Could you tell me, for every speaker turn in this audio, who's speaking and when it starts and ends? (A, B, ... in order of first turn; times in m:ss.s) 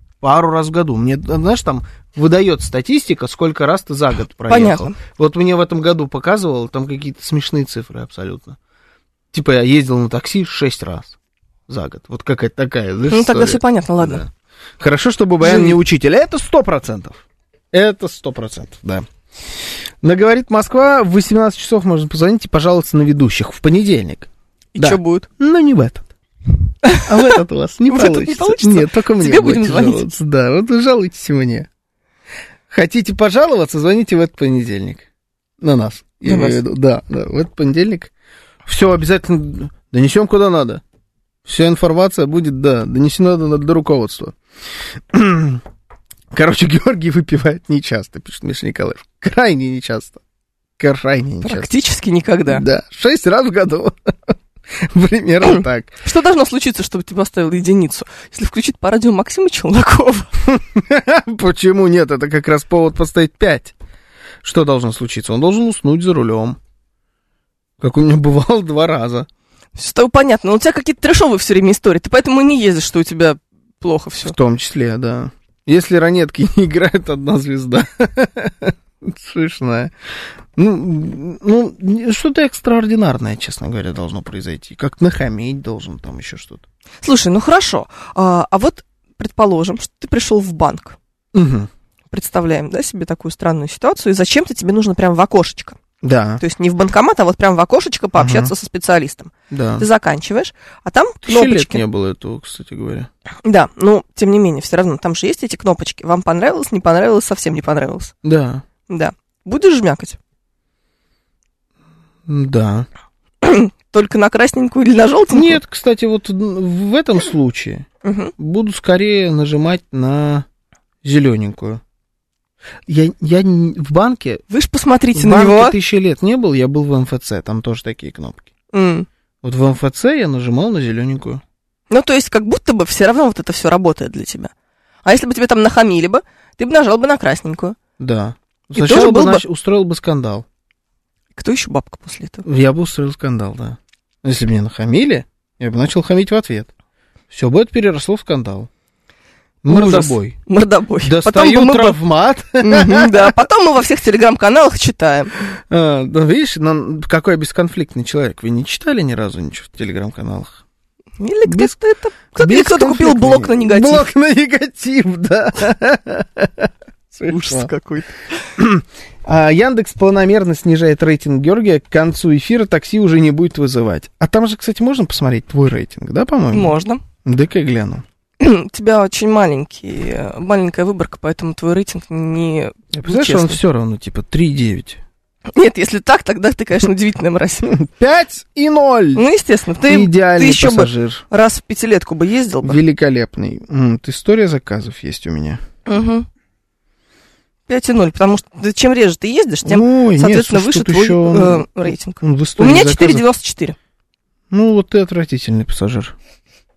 0:00.2-0:08.6 A
0:04.5-0:05.0 B
0:09.3-0:11.2 A
0:11.7-0:14.3 A
0:13.1-0:14.3 B
0:14.8-0:19.1 A
0:15.4-0:15.8 B
0:20.0-0:26.1 A
0:24.8-0:25.3 B
0:26.8-0:27.3 B
0:27.0-0:31.7 A
0:27.9-0:30.1 B
0:32.7-0:35.0 A
0:35.6-0:38.1 A
0:36.3-0:36.6 B
0:38.6-0:40.8 A
0:41.4-0:44.4 A
0:45.1-0:45.6 A
0:46.3-0:50.2 A
0:50.8-0:51.7 A
0:51.4-0:52.6 B
0:52.5-0:55.9 A
0:55.6-1:00.3 B
1:00.5-1:03.7 A
1:04.4-1:06.6 A
1:07.8-1:09.3 A
1:09.8-1:14.4 B
1:14.2-1:19.9 A
1:20.6-1:26.6 A
1:27.0-1:31.0 B
1:31.3-1:31.7 A
1:32.1-1:35.8 B
1:36.0-1:36.4 A
1:36.4-1:41.8 B
1:38.2-1:38.5 A
1:39.5-1:39.9 A
1:41.2-1:43.1 A
1:43.4-1:48.1 B
1:48.2-1:48.6 A
1:48.9-1:50.2 B
1:52.3-1:52.9 A
1:53.4-1:55.6 B
1:55.3-1:57.9 A
1:58.0-1:58.3 B
1:58.4-2:00.5 A
2:01.0-2:01.8 A
2:02.9-2:04.4 A
2:04.5-2:05.8 B
2:05.2-2:08.5 A
2:08.7-2:09.1 B
2:09.4-2:11.4 A
2:11.9-2:14.5 B
2:15.0-2:17.8 B
2:18.0-2:20.4 A
2:18.8-2:19.4 B
2:21.4-2:22.4 B
2:22.4-2:26.7 A
2:27.3-2:28.7 A
2:29.6-2:30.4 A
2:29.7-2:32.0 B
2:31.0-2:33.4 A
2:32.6-2:35.4 B
2:35.7-2:40.6 A
2:41.2-2:44.1 B
2:41.5-2:41.7 A
2:42.4-2:47.7 A
2:47.3-2:48.4 B
2:48.6-2:58.0 A
2:56.5-2:57.0 B
2:58.4-3:03.6 B
3:02.9-3:05.0 A
3:05.5-3:07.8 B
3:07.7-3:09.2 A
3:09.2-3:12.8 B
3:09.8-3:11.2 A
3:12.6-3:15.6 A
3:15.9-3:16.3 B
3:17.7-3:23.8 B
3:19.6-3:23.2 A
3:24.5-3:26.1 A